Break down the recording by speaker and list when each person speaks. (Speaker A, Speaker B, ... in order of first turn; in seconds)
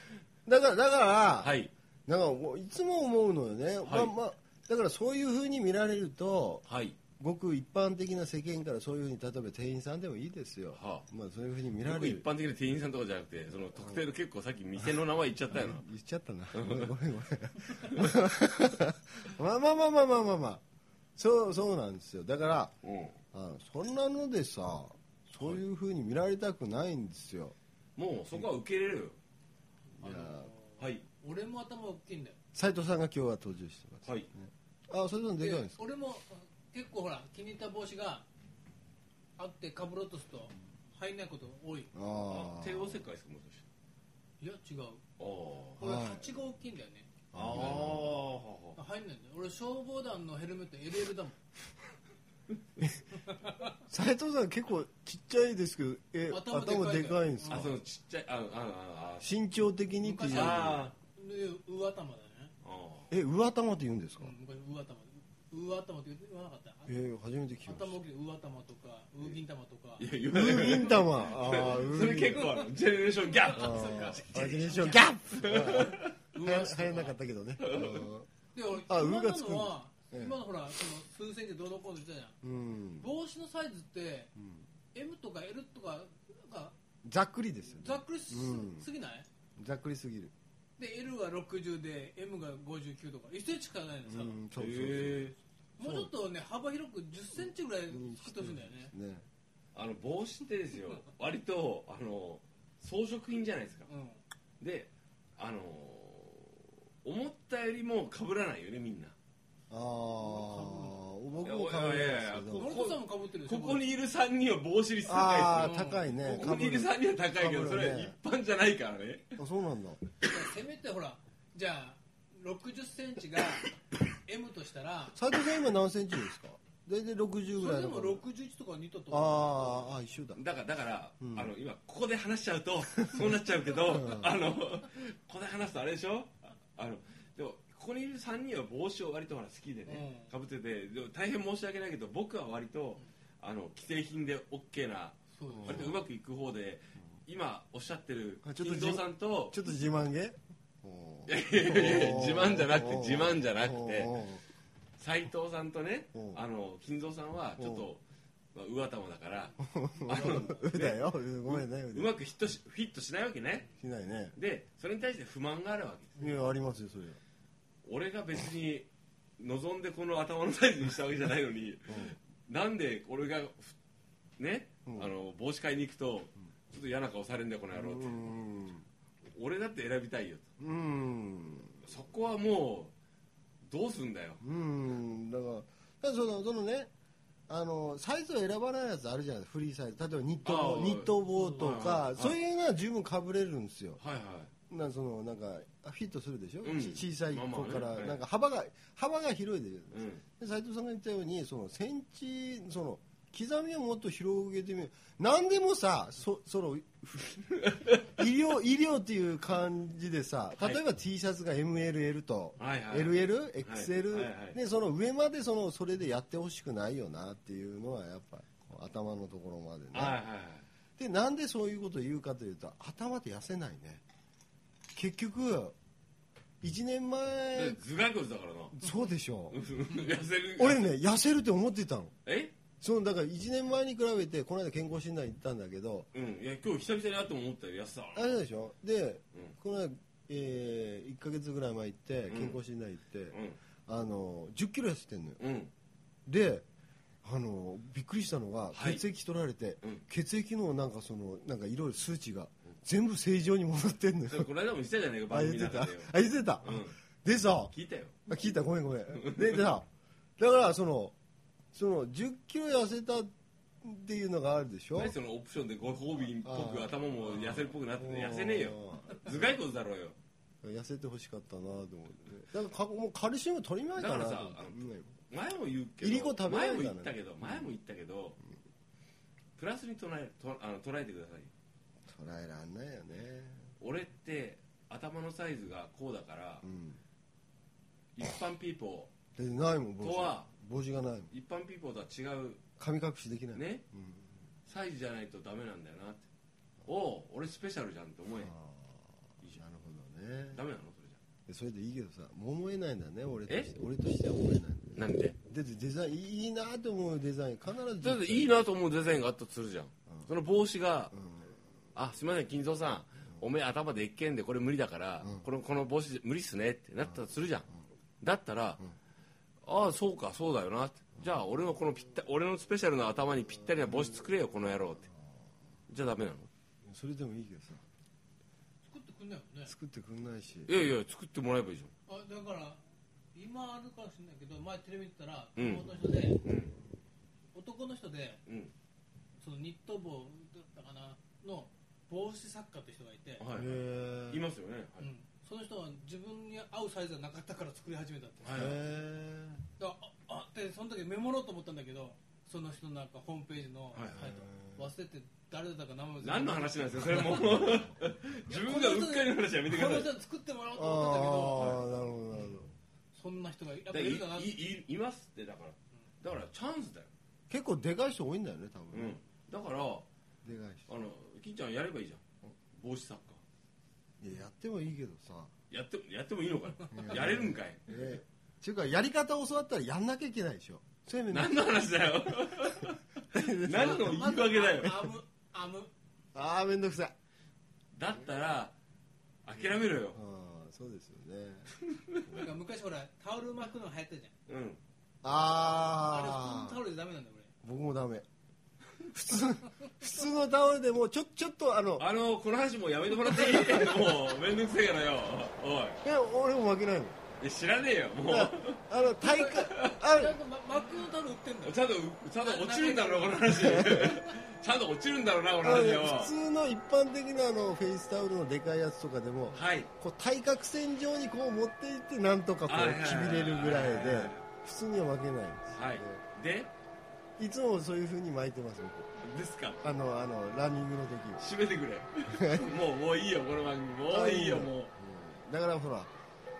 Speaker A: 0.5-6.6, 7.2-12.2, 15.5-20.6, 21.1-22.7, 23.3-27.5, 30.0-30.5, 32.5-35.8, 41.9-43.0, 45.8-46.4, 47.3-48.1, 53.9-57.7, 59.2-60.8, 63.1-64.3, 66.9-68.0, 70.3-72.5, 73.5-78.3, 78.8-80.4, 82.4-83.1, 87.0-88.9, 89.6-90.3, 94.0-95.3, 95.8-96.1, 97.3-99.2, 109.7-112.7, 115.0-118.2, 119.4-120.0, 125.1-128.2, 129.1-130.4, 131.2-131.5, 133.9-134.3, 145.5-146.0, 148.4-154.4, 156.1-156.4, 157.6-157.9, 159.6-162.2, 163.8-164.4, 166.2-167.2, 171.9-172.2, 174.9-175.1, 177.7-178.8, 180.6-181.9, 184.4-186.9, 187.5-194.0, 194.7-220.2, 221.0-224.0, 224.9-225.7, 226.6-227.8, 228.7-229.6, 230.6-232.1, 232.8-236.1, 238.1-245.4, 246.3-246.6, 247.2-254.5, 255.3-257.7, 258.3-259.9, 260.4-261.1, 261.7-263.3, 263.8-265.1, 266.4-269.6, 270.6-275.1, 276.0-277.7, 282.1-283.7, 286.6-287.0, 289.3-291.3, 292.8-294.3, 298.4-299.0, 299.5-300.6, 301.5-308.6, 311.1-311.6, 315.2-315.4, 323.8-324.2, 326.9-327.8, 329.7-330.8, 343.5-344.4, 348.5-349.6, 354.1-354.9, 360.7-362.7, 367.5-369.2, 370.4-370.9, 374.2-375.5, 376.9-381.6, 383.3-385.1, 386.3-387.1, 390.0-391.7, 395.2-396.8, 397.6-398.2, 399.1-402.1, 403.3-403.9, 406.0-407.2, 408.3-410.4, 413.6-414.1, 415.6-426.2, 427.4-429.1, 429.8-431.5, 432.3-432.7, 434.1-436.1
Speaker B: 1.4-1.7, 3.8-4.1, 6.7-7.0, 10.7-11.0, 11.8-15.8, 16.5-16.9, 22.8-23.1, 27.9-29.2, 42.3-43.6, 45.2-45.8, 47.3-48.8, 57.5-59.3, 60.3-60.9, 62.6-63.1, 70.0-77.1, 77.6-78.1, 94.6-95.3, 99.7-103.9, 104.6-109.1, 111.4-119.3, 130.3-149.6, 151.3-154.1, 155.0-158.0, 158.5-163.7, 164.3-166.3, 167.8-168.9, 169.4-173.7, 174.4-178.4, 179.3-180.4, 181.8-182.9, 183.7-184.4, 190.4-192.4, 194.0-194.5, 196.6-198.2, 199.9-200.2, 210.6-210.8, 212.6-214.6, 219.9-220.6, 227.5-228.8, 229.5-230.9, 232.2-232.5, 236.1-238.4, 242.3-242.6, 243.3-243.6, 245.4-245.7, 248.7-249.0, 254.3-256.1, 256.6-256.9, 257.7-258.1, 259.2-259.6, 264.9-270.1, 273.9-278.4, 279.6-281.5, 283.8-286.6, 288.1-289.1, 290.0-290.5, 291.3-292.6, 293.5-293.8, 294.7-296.2, 296.9-298.5, 300.5-301.2, 304.9-305.4, 308.0-311.1, 311.9-317.6, 318.2-318.8, 319.6-325.1, 325.9-326.5, 330.7-331.9, 335.6-336.7, 338.4-338.7, 343.4-345.1, 348.4-348.8, 353.9-354.2, 356.2-360.1, 363.9-367.1, 368.9-370.1, 370.9-373.4, 375.7-378.1, 381.3-384.9, 387.9-388.7, 389.4-390.2, 392.1-392.4, 394.5-394.8, 402.0-406.0, 407.4-408.8, 409.6-410.0, 411.6-416.3, 419.5-419.9, 422.6-424.5, 425.7-426.7, 429.2-429.9, 431.4-434.9
Speaker C: 30.0-32.4, 35.4-38.2, 39.4-41.9, 44.4-45.0, 45.8-47.1, 48.8-51.4, 53.3-53.7, 56.3-57.7, 60.0-62.5, 64.2-66.9, 67.7-70.1, 70.6-70.9, 73.3-75.0, 78.5-82.3, 83.0-84.3, 84.9-86.7, 87.7-89.3, 90.8-94.4, 95.8-98.9, 103.9-104.2, 110.2-111.0, 112.5-113.8, 115.5-116.0, 120.2-123.7, 124.2-125.2, 127.6-129.9, 139.9-140.3, 145.3-145.9, 160.1-160.5, 328.8-329.7, 332.1-332.8, 333.3-336.4, 337.5-338.4, 339.4-343.4, 345.0-348.6, 349.8-357.6, 358.5-361.9, 363.1-364.6, 383.9-385.9, 392.3-394.3, 396.1-397.5, 409.2-411.8, 412.4-414.3